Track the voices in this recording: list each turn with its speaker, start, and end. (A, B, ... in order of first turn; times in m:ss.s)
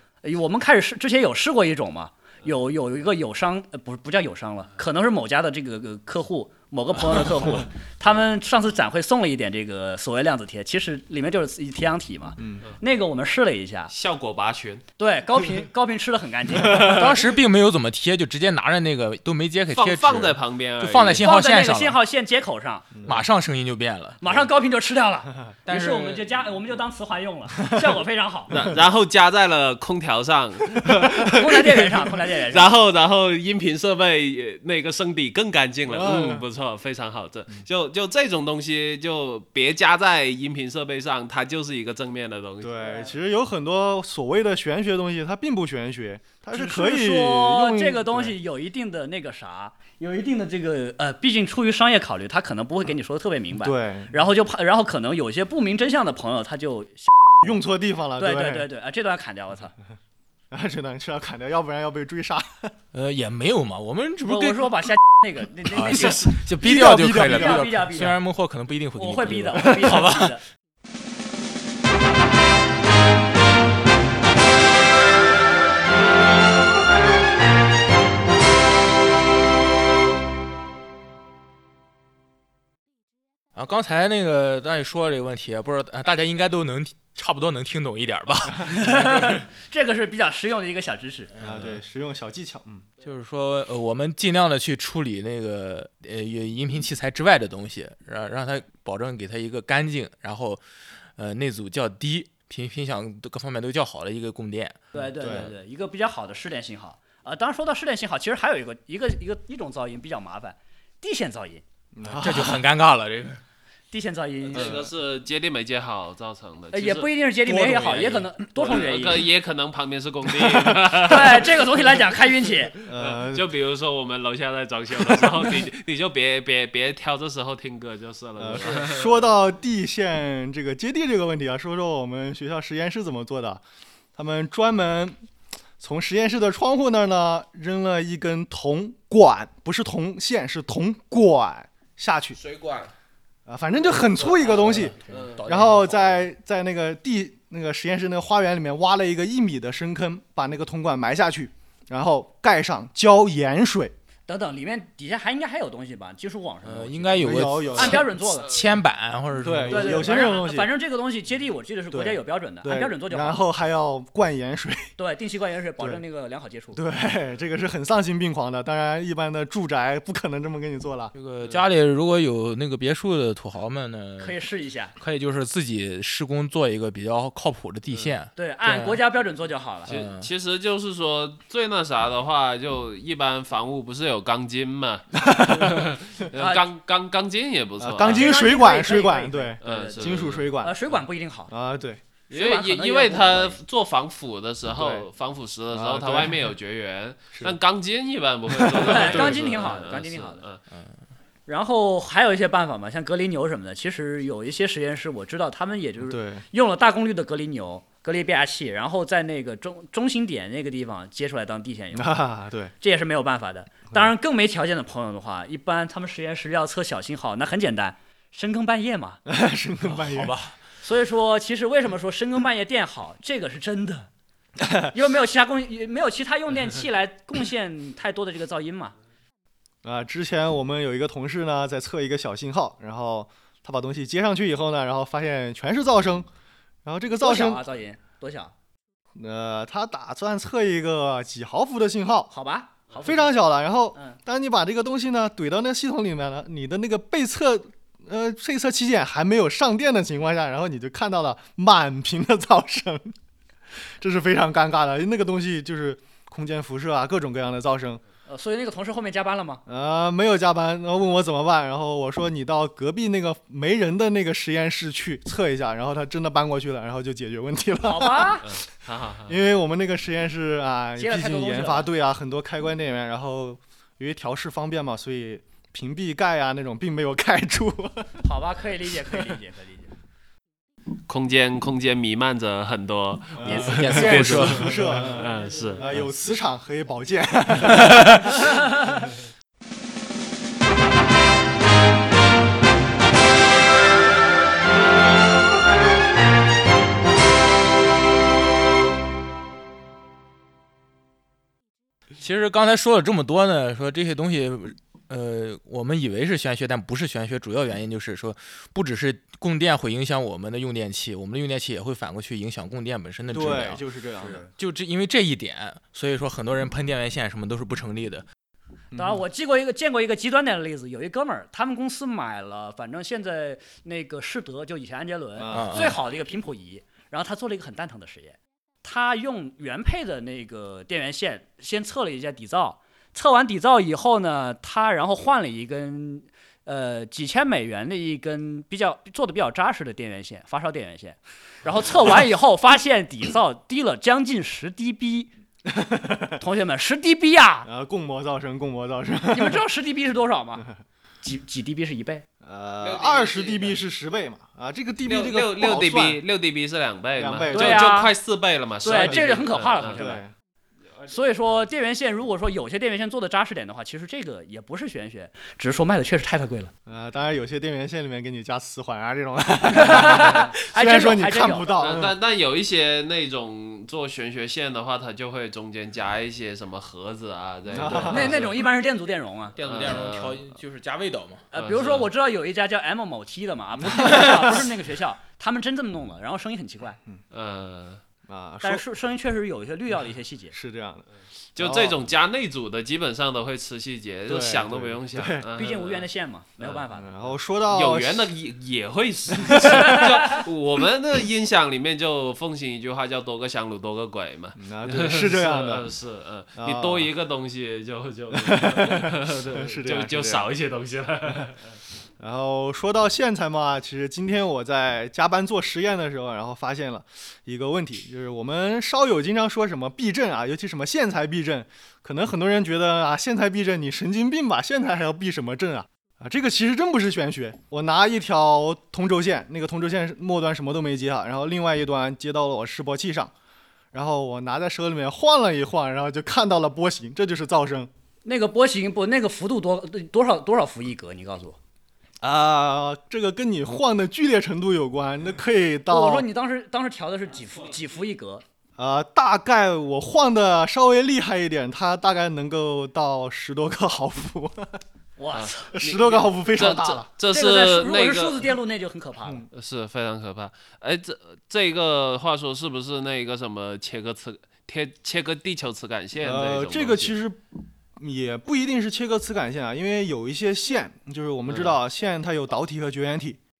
0:00.2-0:13.9 A
0:12.4-0:12.6 B
0:13.9-0:14.8 C
0:15.0-0:17.1 A
0:16.7-0:22.0 D
0:19.7-0:21.2 C
0:21.2-0:23.0 A
0:22.9-0:23.2 B
0:23.0-0:24.2 D
0:24.2-0:28.5 A
0:25.6-0:26.3 D
0:28.5-0:31.7 C
0:30.8-0:31.2 B
0:31.3-0:32.7 A
0:32.5-0:42.9 C
0:35.9-0:36.4 B
0:42.6-0:48.4 B
0:42.8-0:43.1 A
0:46.5-0:57.6 A
0:53.6-0:54.1 B
0:57.4-0:58.7 B
0:58.2-0:59.7 A
1:00.5-1:02.7 B
1:02.9-1:04.9 D
1:04.2-1:06.4 A
1:05.7-1:10.4 D
1:06.4-1:07.6 B
1:07.1-1:08.2 A
1:08.9-1:10.4 A
1:23.5-1:29.4 D
1:28.6-1:31.3 A
1:31.4-1:32.9 B
1:33.0-1:40.6 D
1:41.2-1:44.8 D
1:44.9-1:51.6 A
1:45.2-1:45.5 B
1:51.9-1:52.6 B
1:52.1-1:53.4 D
1:53.9-1:54.8 A
1:54.5-1:57.1 C
1:54.5-1:54.9 B
1:56.7-1:59.2 A
1:57.4-1:58.3 D
1:58.6-2:01.6 C
2:01.0-2:02.8 A
2:02.8-2:03.5 B
2:03.0-2:09.3 C
2:08.4-2:13.6 B
2:14.2-2:15.2 B
2:15.8-2:22.4 B
2:22.4-2:22.9 C
2:23.4-2:33.9 B
2:24.4-2:26.2 D
2:25.0-2:25.4 C
2:34.3-2:38.6 A
2:36.6-2:40.2 D
2:37.2-2:38.1 B
2:39.3-2:40.7 B
2:39.6-2:43.4 A
2:41.9-2:44.9 B
2:45.0-2:46.8 A
2:46.7-2:51.1 B
2:51.1-2:54.4 D
2:54.2-2:54.9 A
2:55.0-2:59.0 D
2:58.4-2:59.9 A
2:59.9-3:00.3 D
2:59.9-3:08.3 C
3:05.1-3:05.9 B
3:06.3-3:06.6 A
3:07.8-3:10.8 B
3:08.0-3:11.5 A
3:09.6-3:10.5 C
3:11.5-3:12.0 B
3:12.3-3:13.6 A
3:12.3-3:20.6 C
3:14.7-3:15.1 B
3:15.7-3:16.5 B
3:18.5-3:19.5 B
3:18.8-3:20.4 A
3:21.5-3:32.2 A
3:26.0-3:26.4 B
3:31.9-3:32.7 B
3:32.8-3:39.2 A
3:39.2-3:40.4 B
3:39.9-3:40.6 D
3:40.8-3:44.1 A
3:44.9-3:49.0 A
3:49.8-3:56.3 B
3:56.8-3:57.6 B
3:57.1-3:58.5 A
3:59.1-4:02.3 B
4:02.3-4:03.3 A
4:03.0-4:13.1 B
4:14.0-4:18.0 B
4:18.2-4:19.6 A
4:19.7-4:28.6 B
4:27.8-4:28.4 A
4:28.4-4:29.4 C
4:29.2-4:38.2 B
4:31.0-4:31.9 A
4:38.2-4:39.9 A
4:41.1-4:45.8 C
4:43.4-4:48.6 B
4:43.4-4:44.8 D
4:43.7-4:44.5 A
4:45.4-4:45.8 A
5:02.2-5:13.8 D
5:13.3-5:14.4 B
5:14.2-5:14.5 A
5:14.5-5:18.2 D
5:18.9-5:19.2 B
5:19.0-5:45.3 A
5:25.4-5:25.8 B
5:25.5-5:26.0 D
5:45.7-5:46.4 B
5:46.4-5:47.7 A
5:47.6-5:49.6 B
5:49.3-5:50.7 A
5:51.2-5:52.2 A
5:52.4-5:56.2 B
5:52.8-5:53.7 C
5:55.0-6:00.0 C
5:57.2-5:57.9 B
5:57.5-5:58.1 A
5:58.8-6:00.2 A
5:58.9-6:00.3 B
6:01.1-6:06.7 A
6:06.8-6:12.2 B
6:09.7-6:11.8 A
6:11.8-6:18.6 C
6:17.7-6:18.5 B
6:18.0-6:19.5 A
6:19.6-6:21.4 D
6:19.6-6:20.5 C
6:21.5-6:27.0 A
6:21.5-6:22.1 C
6:23.8-6:24.7 B
6:27.3-6:28.0 C
6:28.3-6:28.8 B
6:28.6-6:30.5 A
6:30.5-6:32.0 B
6:31.6-6:36.1 C
6:34.3-6:35.4 B
6:35.6-6:37.1 A
6:36.9-6:38.3 B
6:37.7-6:51.8 C
6:39.4-6:40.0 B
6:39.7-6:40.4 A
6:44.6-6:45.8 B
6:46.6-6:47.1 B
6:48.3-6:50.5 B
6:52.2-7:13.3 B
7:13.9-7:17.9 B
7:18.2-7:21.6 A
7:22.2-7:26.3 B
7:25.9-7:28.4 A
7:28.8-7:34.8 B
7:35.2-7:35.7 A
7:35.3-7:38.5 C
7:35.7-7:37.1 B
7:37.3-7:39.4 A
7:39.5-7:47.2 C
7:46.2-7:47.4 B
7:47.9-7:53.4 B
7:51.5-7:51.8 C